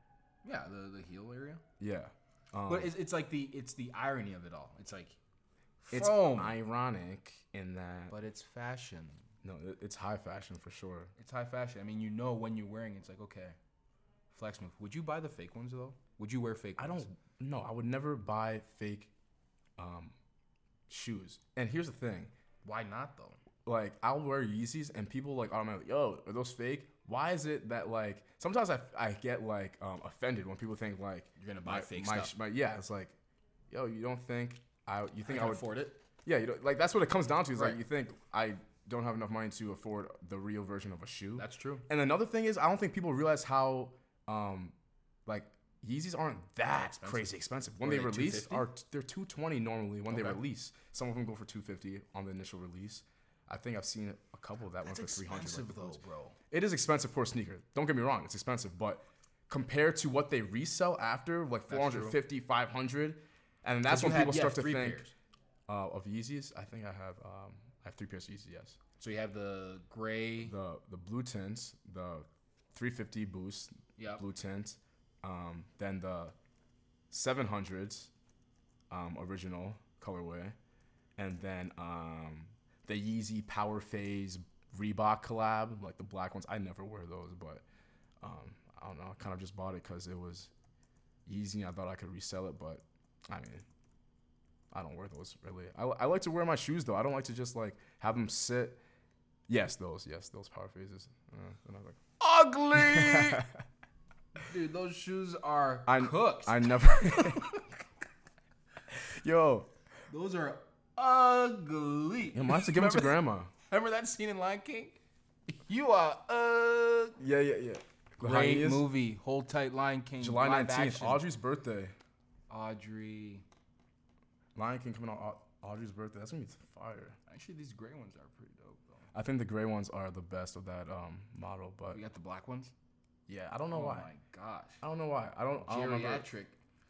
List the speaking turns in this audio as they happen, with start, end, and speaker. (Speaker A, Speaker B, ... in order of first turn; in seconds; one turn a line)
Speaker A: 0.4-1.6
Speaker B: 1.8-2.9
Speaker A: 2.7-5.2
Speaker A: 5.8-6.5
Speaker B: 5.9-8.2
Speaker A: 8.1-9.2
Speaker B: 9.4-11.1
Speaker A: 11.2-13.6
Speaker A: 14.3-17.1
Speaker B: 16.8-19.1
Speaker B: 19.8-20.1
Speaker B: 20.9-22.3
Speaker A: 22.6-23.4
Speaker B: 23.6-33.1
Speaker A: 31.4-32.3
Speaker B: 33.7-35.7
Speaker A: 35.2-36.0
Speaker B: 36.2-44.7
Speaker A: 37.5-37.8
Speaker A: 41.4-41.9
Speaker B: 45.2-65.1
Speaker A: 46.7-48.7
Speaker A: 50.1-50.4
Speaker A: 54.8-56.4
Speaker A: 61.7-62.2
Speaker A: 63.8-65.1
Speaker B: 65.7-68.8
Speaker A: 69.0-70.5
Speaker B: 70.4-76.3
Speaker A: 74.0-74.2
Speaker B: 77.1-78.1
Speaker B: 78.9-80.5
Speaker B: 81.2-87.6
Speaker B: 88.2-90.5
Speaker B: 91.2-93.6
Speaker B: 94.7-98.8
Speaker B: 99.5-102.0
Speaker A: 102.2-103.5
Speaker B: 102.7-103.5
Speaker A: 104.3-107.6
Speaker B: 105.8-107.6
Speaker B: 108.9-109.7
Speaker A: 110.1-113.2
Speaker B: 112.3-113.5
Speaker A: 113.7-115.0
Speaker A: 115.5-117.2
Speaker B: 117.2-118.9
Speaker A: 118.2-121.2
Speaker B: 120.2-121.9
Speaker A: 122.5-123.4
Speaker B: 124.5-127.2
Speaker A: 127.3-129.1
Speaker B: 129.1-132.0
Speaker A: 131.9-132.7
Speaker B: 133.3-134.1
Speaker A: 133.7-134.8
Speaker B: 134.8-136.3
Speaker A: 135.6-136.5